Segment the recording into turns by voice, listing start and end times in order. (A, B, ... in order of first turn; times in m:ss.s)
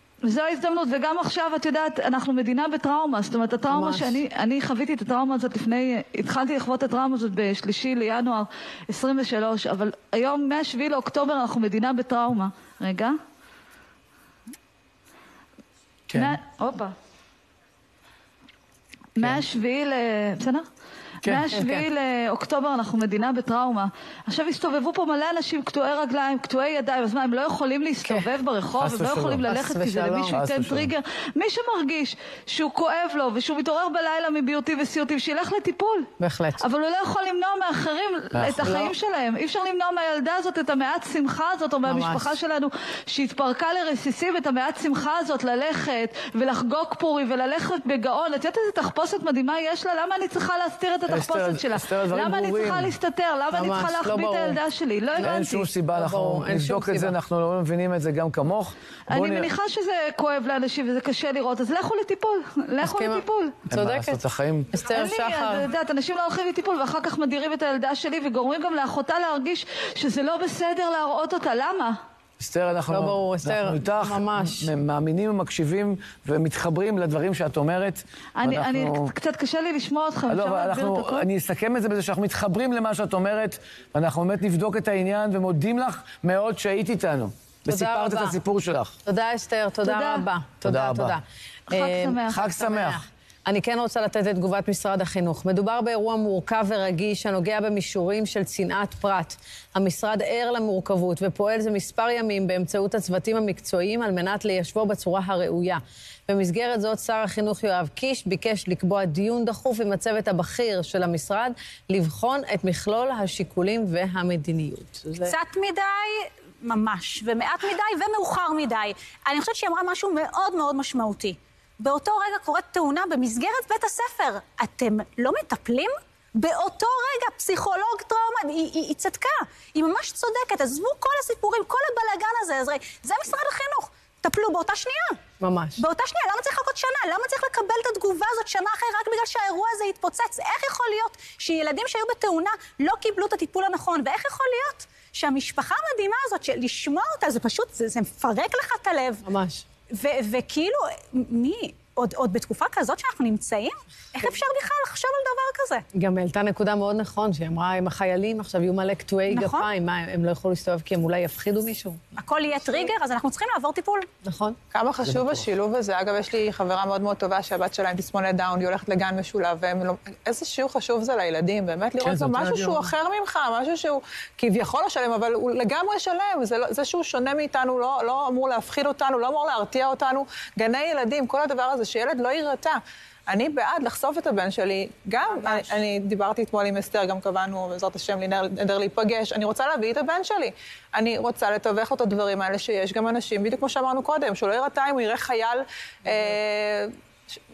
0:00.2-0:13.2 A
0:03.7-0:04.2 B
0:16.1-0:16.4 C
0:16.1-0:16.9 A
0:19.2-0:20.6 A
0:21.2-0:55.7 A
0:21.5-0:21.9 B
0:28.8-0:29.5 C
0:29.4-0:30.4 B
0:30.3-0:30.9 C
0:36.2-0:36.6 B
0:38.3-0:38.8 C
0:41.9-0:42.4 B
0:51.1-0:53.0 C
0:53.5-0:54.6 B
0:55.2-0:59.5 C
0:55.9-0:57.2 B
0:59.1-1:03.6 A
1:02.8-1:04.2 B
1:03.7-1:04.7 C
1:04.7-1:05.7 B
1:04.9-1:12.0 A
1:12.4-1:19.1 C
1:12.9-1:14.7 B
1:18.4-1:21.3 A
1:20.3-1:29.0 C
1:27.7-1:28.4 B
1:29.1-1:55.4 B
1:29.8-1:30.3 A
1:30.6-1:31.2 C
1:31.7-1:32.6 A
1:32.3-1:33.0 C
1:55.2-2:15.2 D
2:15.4-2:15.8 B
2:15.8-2:29.3 D
2:29.2-2:29.7 B
2:29.9-2:35.8 D
2:36.0-2:42.0 B
2:39.3-2:39.7 D
2:42.1-2:44.1 D
2:42.6-2:42.9 E
2:44.2-2:44.6 B
2:44.7-3:16.9 E
2:52.0-2:52.9 C